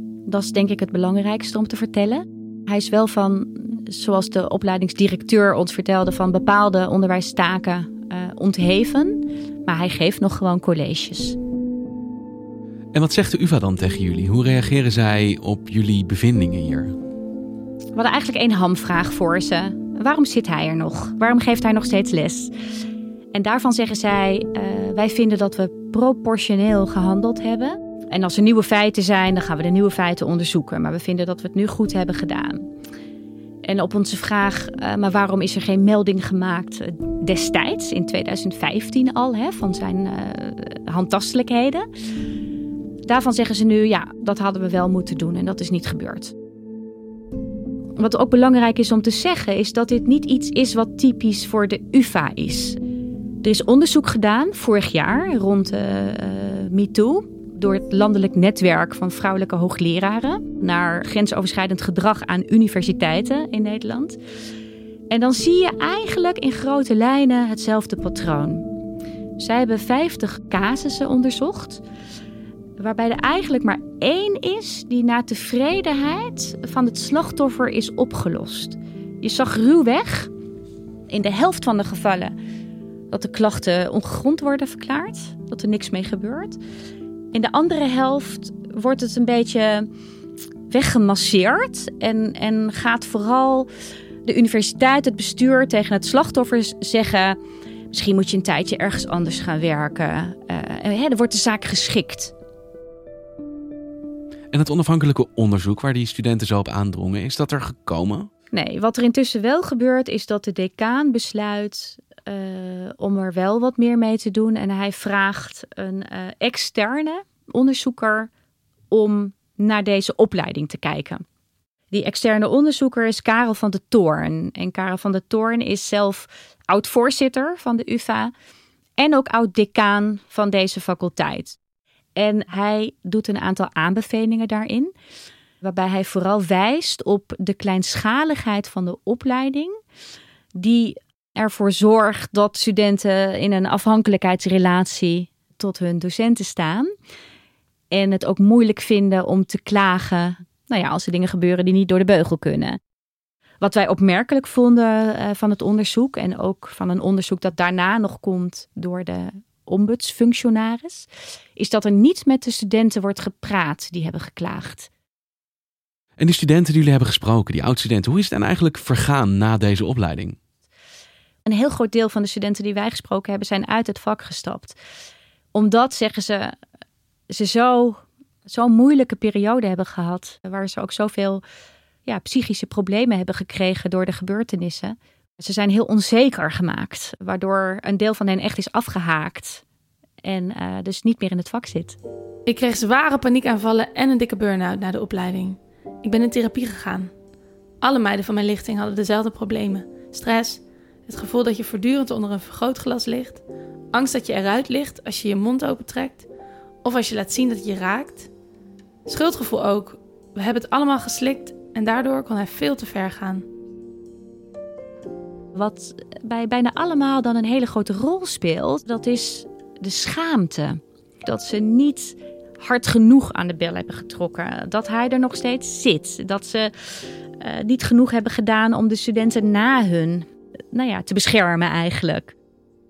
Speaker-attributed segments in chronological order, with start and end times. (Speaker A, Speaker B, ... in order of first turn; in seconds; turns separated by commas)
Speaker A: 0.3-11.4, Speaker B: 12.9-16.9, Speaker A: 17.9-22.5, Speaker A: 23.3-32.6, Speaker A: 33.6-41.9, Speaker A: 43.0-46.3, Speaker A: 48.0-52.8, Speaker A: 53.4-64.2, Speaker A: 65.1-68.7, Speaker A: 69.4-71.8, Speaker A: 72.8-80.3, Speaker A: 81.1-82.3, Speaker A: 83.1-86.6, Speaker A: 87.3-89.9, Speaker A: 90.7-93.7, Speaker A: 94.2-97.4, Speaker A: 97.9-102.3, Speaker B: 104.5-108.3, Speaker A: 108.5-118.3, Speaker A: 118.9-121.2, Speaker A: 121.9-128.3, Speaker A: 129.0-131.6, Speaker A: 132.2-134.9, Speaker A: 135.6-139.7, Speaker A: 140.5-146.9, Speaker A: 147.9-152.8, Speaker A: 153.6-164.9, Speaker B: 166.2-170.3, Speaker A: 171.4-174.8, Speaker A: 175.5-176.6, Speaker A: 177.3-181.4, Speaker A: 182.1-189.6, Speaker A: 190.2-192.0, Speaker C: 192.4-197.1, Speaker C: 197.8-206.2, Speaker C: 206.8-208.3, Speaker C: 209.1-213.4, Speaker A: 215.5-226.7, Speaker A: 227.4-232.3